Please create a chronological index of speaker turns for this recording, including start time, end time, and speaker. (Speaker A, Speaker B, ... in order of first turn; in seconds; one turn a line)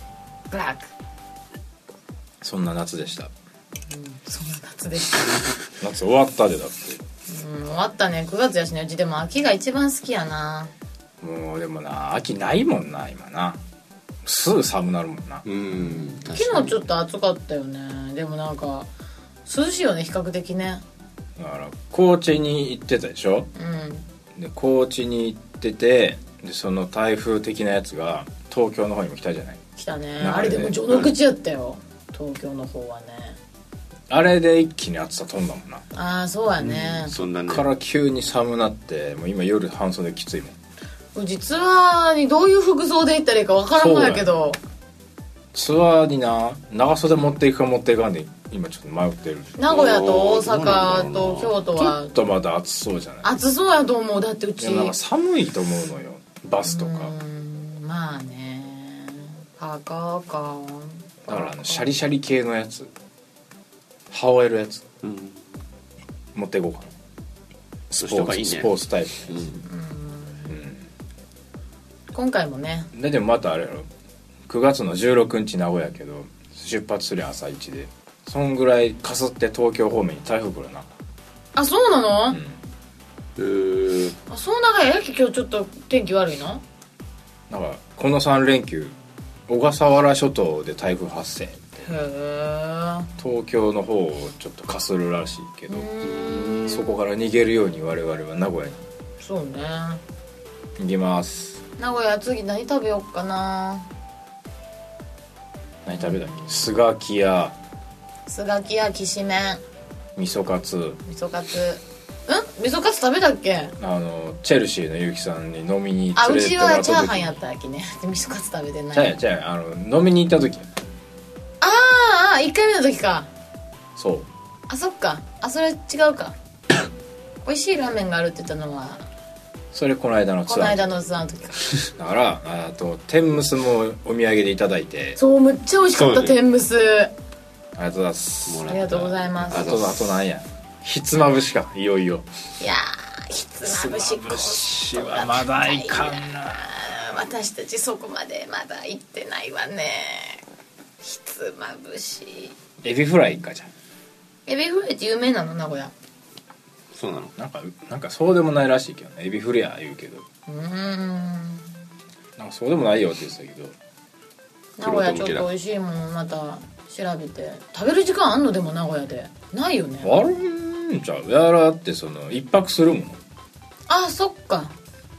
Speaker A: 0.5-0.9
Speaker B: 2.4-3.3
Speaker A: 3.9-5.4
Speaker B: 5.8-7.0
Speaker A: 7.3-10.7
Speaker B: 11.2-13.6
Speaker B: 14.2-15.4
Speaker C: 15.4-16.8
Speaker A: 16.3-18.9
Speaker A: 19.5-20.8
Speaker B: 21.4-23.5
Speaker A: 23.6-24.1
Speaker B: 24.4-29.6
Speaker A: 29.8-33.4
Speaker B: 30.2-30.8
Speaker B: 34.1-35.9
Speaker A: 35.9-37.2
Speaker C: 36.8-37.7
Speaker B: 37.0-40.6
Speaker A: 41.1-44.6
Speaker B: 43.8-44.3
Speaker B: 45.5-49.6
Speaker A: 49.6-52.2
Speaker C: 49.6-51.6
Speaker B: 51.8-53.3
Speaker A: 53.2-55.0
Speaker B: 54.6-57.1
Speaker A: 56.6-61.9
Speaker B: 61.3-62.9
Speaker B: 64.1-64.8
Speaker C: 65.0-65.4
Speaker B: 66.3-66.9
Speaker B: 67.9-69.6
Speaker C: 68.0-68.7
Speaker C: 69.3-69.6
Speaker A: 69.6-70.6
Speaker B: 70.5-70.9
Speaker A: 72.1-72.9
Speaker B: 72.9-73.9
Speaker B: 74.5-80.9
Speaker A: 81.5-82.4
Speaker B: 82.3-82.6
Speaker C: 83.4-84.2
Speaker A: 84.3-86.6
Speaker B: 87.5-89.0
Speaker B: 89.5-92.0
Speaker A: 91.8-93.1
Speaker B: 93.2-95.9
Speaker A: 95.7-97.0
Speaker C: 96.1-96.8
Speaker B: 96.7-98.8
Speaker A: 99.2-100.0
Speaker B: 100.8-101.6
Speaker A: 101.8-103.9
Speaker B: 105.9-107.6
Speaker A: 106.0-106.5
Speaker A: 108.3-109.6
Speaker B: 110.2-111.0
Speaker A: 111.0-113.8
Speaker B: 113.8-117.3
Speaker A: 116.2-119.2
Speaker B: 118.9-120.7
Speaker A: 121.6-123.3
Speaker B: 124.0-124.3
Speaker A: 124.7-126.3
Speaker A: 127.5-129.1
Speaker B: 129.7-130.9
Speaker A: 130.5-131.6
Speaker B: 132.0-135.2
Speaker A: 135.2-137.1
Speaker C: 135.9-136.4
Speaker B: 137.8-142.2
Speaker C: 138.5-138.8
Speaker A: 138.6-139.8
Speaker C: 139.5-140.2
Speaker A: 142.6-150.4
Speaker B: 143.6-147.0
Speaker A: 151.0-152.6
Speaker B: 152.8-153.7
Speaker A: 154.5-155.9
Speaker C: 156.9-157.3
Speaker B: 157.4-160.2
Speaker A: 160.5-161.7
Speaker B: 162.4-163.8
Speaker A: 164.8-170.2
Speaker C: 164.8-165.5
Speaker B: 170.0-173.2
Speaker A: 173.9-174.8